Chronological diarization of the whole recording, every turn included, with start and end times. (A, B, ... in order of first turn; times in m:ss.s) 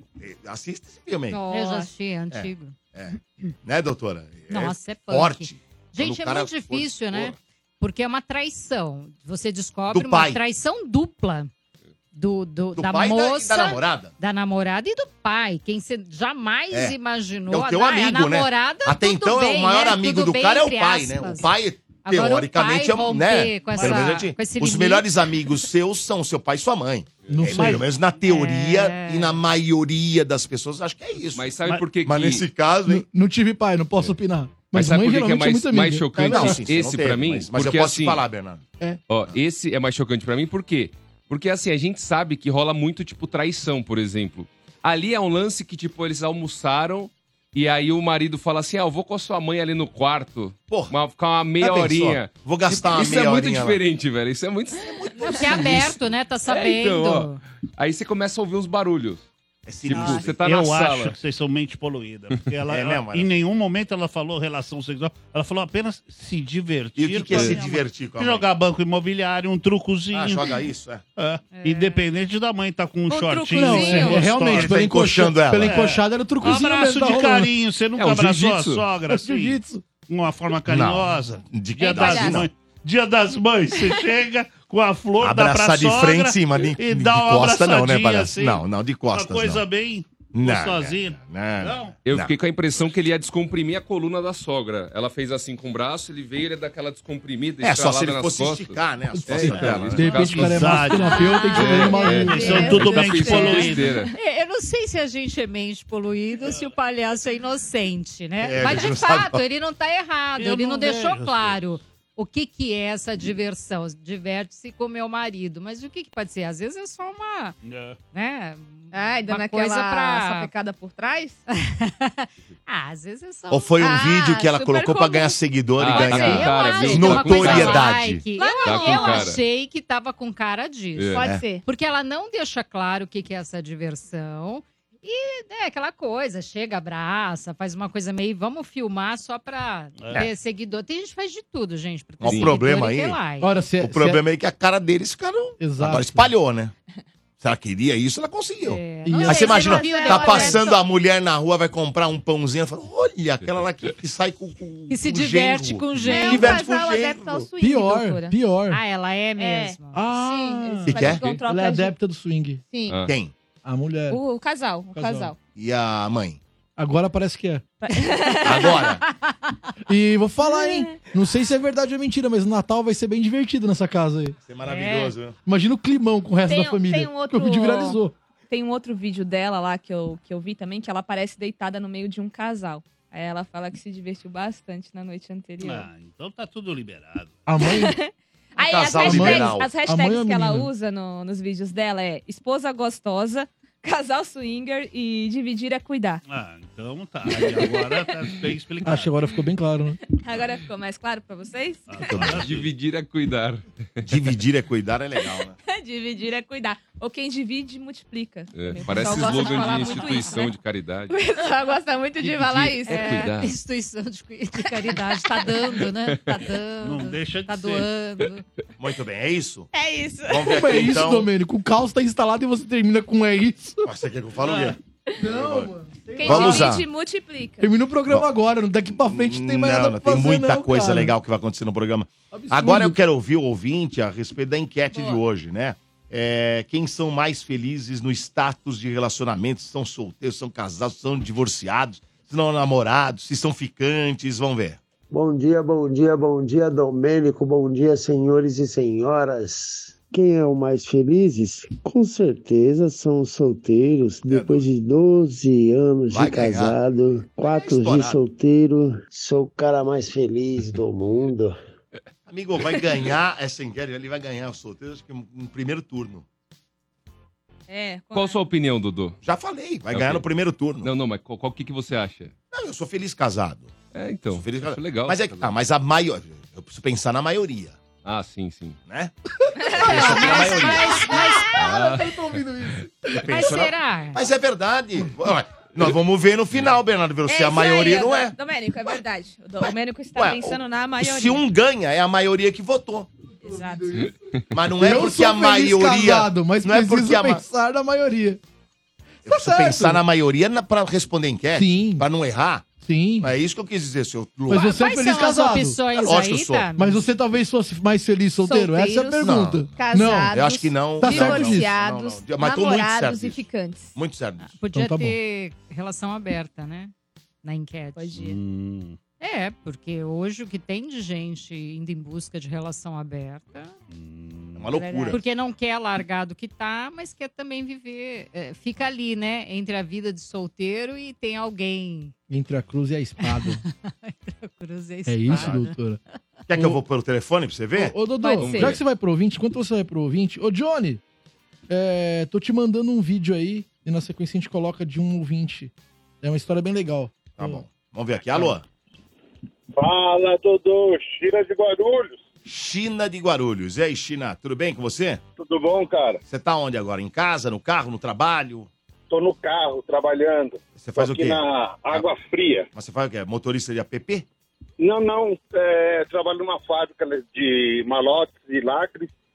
0:00.2-0:01.4 A
0:01.3-0:02.7 B
0:01.5-0:01.9 C
0:02.3-0:07.4 A
0:04.5-0:11.5 B
0:09.9-0:10.4 A
0:12.1-0:21.5 B
0:12.8-0:14.1 A
0:17.5-0:33.0 A
0:22.0-0:25.1 B
0:23.7-0:24.2 D
0:27.3-0:27.8 E
0:28.2-0:29.4 B
0:31.3-0:32.4 F
0:32.9-0:36.6 E
0:34.7-0:38.2 F
0:36.2-0:38.6 A
0:39.1-0:55.6 F
0:51.6-0:53.8 A
0:54.8-0:56.0 A
0:55.2-0:57.4 B
0:56.5-0:59.2 F
0:59.6-1:00.4 A
0:59.9-1:01.1 F
0:59.9-1:00.3 C
1:00.0-1:10.6 D
1:02.7-1:03.3 A
1:07.0-1:08.4 A
1:07.3-1:07.6 F
1:10.1-1:11.0 A
1:11.2-1:14.7 D
1:11.5-1:12.0 B
1:13.1-1:14.3 C
1:13.5-1:17.5 E
1:14.3-1:15.8 A
1:15.7-1:31.9 D
1:18.0-1:18.8 F
1:19.1-1:19.8 E
1:20.6-1:22.5 A
1:21.9-1:22.4 C
1:25.2-1:29.6 A
1:30.3-1:32.3 A
1:32.0-1:40.8 F
1:37.6-1:40.3 A
1:39.1-1:42.9 E
1:40.2-1:43.9 D
1:40.9-1:44.1 C
1:41.5-1:44.1 F
1:44.1-1:57.5 B
1:48.4-1:49.4 A
1:50.4-1:51.8 D
1:57.6-1:58.0 D
1:58.1-2:00.5 B
1:58.9-2:01.4 C
2:01.5-2:04.0 B
2:03.5-2:08.2 A
2:03.8-2:05.4 C
2:05.8-2:07.8 F
2:05.9-2:07.0 C
2:06.0-2:23.5 B
2:08.4-2:09.3 C
2:08.6-2:09.4 F
2:11.0-2:11.2 F
2:11.1-2:11.6 C
2:20.0-2:20.2 D
2:22.2-2:23.2 A
2:22.2-2:22.5 F
2:23.4-2:24.2 E
2:23.8-2:26.7 A
2:25.6-2:26.3 E
2:27.4-2:37.5 A
2:28.6-2:30.7 B
2:29.0-2:29.7 E
2:29.3-2:30.8 C
2:33.4-2:33.6 F
2:34.9-2:36.6 B
2:36.0-2:38.3 C
2:37.6-2:38.8 E
2:38.7-2:40.0 B
2:39.4-2:41.9 C
2:39.9-2:42.6 E
2:40.9-2:41.2 A
2:42.7-2:43.0 C
2:43.1-2:43.3 A
2:43.6-2:44.2 E
2:44.1-2:45.4 C
2:44.9-2:45.3 E
2:45.6-2:46.4 A
2:46.8-2:47.7 E
2:47.8-2:48.8 C
2:48.4-2:49.1 B
2:48.4-2:49.0 A
2:49.9-2:54.4 E
2:50.6-2:51.0 C
2:54.4-2:55.3 A
2:54.6-2:55.1 B
2:55.4-2:58.1 E
2:56.5-3:05.9 C
3:05.6-3:07.4 D
3:07.5-3:08.0 E
3:07.6-3:16.2 C
3:08.6-3:09.7 A
3:09.0-3:10.7 E
3:16.3-3:19.2 D
3:17.4-3:18.4 C
3:18.8-3:20.0 E
3:20.2-3:22.1 C
3:21.9-3:22.7 D
3:22.1-3:22.5 A
3:22.4-3:24.0 F
3:24.0-3:25.6 A
3:25.6-3:30.5 C
3:28.5-3:31.1 F
3:29.0-3:30.4 B
3:31.1-3:33.3 C
3:32.2-3:33.5 F
3:32.8-3:38.4 B
3:36.8-3:37.9 D
3:38.8-3:39.7 A
3:39.7-3:40.7 C
3:40.3-3:41.3 A
3:40.5-3:43.9 E
3:43.8-3:45.7 A
3:44.4-3:44.8 D
3:45.2-3:46.7 E
3:46.1-3:47.7 C
3:46.2-3:46.8 A
3:47.6-3:51.1 E
3:49.1-4:04.8 A
3:52.3-3:53.0 E
3:54.9-3:55.2 C
4:05.1-4:21.6 G
4:14.3-4:14.6 A
4:16.1-4:16.8 A
4:17.4-4:18.2 A
4:22.3-4:26.2 A
4:22.7-4:23.0 C
4:27.7-4:28.4 C
4:28.1-4:29.2 F
4:29.2-4:30.9 A
4:29.9-4:30.2 F
4:30.8-4:32.3 F
4:32.5-4:33.7 A
4:33.9-4:35.5 F
4:34.3-4:37.8 A
4:38.0-4:38.8 F
4:38.9-4:39.1 A
4:39.6-4:40.6 C
4:39.7-4:41.1 A
4:39.8-4:43.2 E
4:39.8-4:41.7 B
4:41.6-4:42.2 F
4:43.1-4:48.3 A
4:43.3-4:44.2 B
4:47.2-4:51.4 C
4:49.6-4:53.1 A
4:53.4-4:54.1 E
4:53.4-4:54.0 C
4:54.5-4:57.4 A
4:54.8-4:58.4 E
4:59.2-5:00.0 E
4:59.2-5:02.7 A
5:01.5-5:02.0 E
5:02.8-5:03.3 E
5:03.2-5:04.7 A
5:04.5-5:05.8 E
5:04.5-5:07.0 B
5:05.9-5:06.7 A
5:06.8-5:10.3 E
5:08.4-5:13.9 C
5:09.2-5:09.7 A
5:10.3-5:14.5 A
5:11.0-5:11.7 E
5:14.4-5:18.1 B
5:14.7-5:15.2 E
5:18.0-5:18.4 C
5:18.1-5:19.0 D
5:19.2-5:23.7 B
5:23.9-5:24.8 D
5:24.6-5:25.2 A
5:25.1-5:32.1 B
5:32.3-5:33.6 E
5:33.2-5:35.8 B
5:35.0-5:36.0 E
5:35.3-5:35.6 A
5:36.5-5:37.9 A
5:36.5-5:36.8 E
5:37.8-5:41.0 E
5:38.2-5:38.8 C
5:38.4-5:38.7 F
5:41.7-5:47.6 E
5:47.4-5:48.6 A
5:49.8-5:52.2 H
5:52.4-5:55.2 A
5:55.4-5:56.2 H
5:56.3-5:58.7 A
5:59.1-6:02.7 H
6:00.7-6:01.4 A
6:02.7-6:04.2 A
6:04.8-6:09.1 H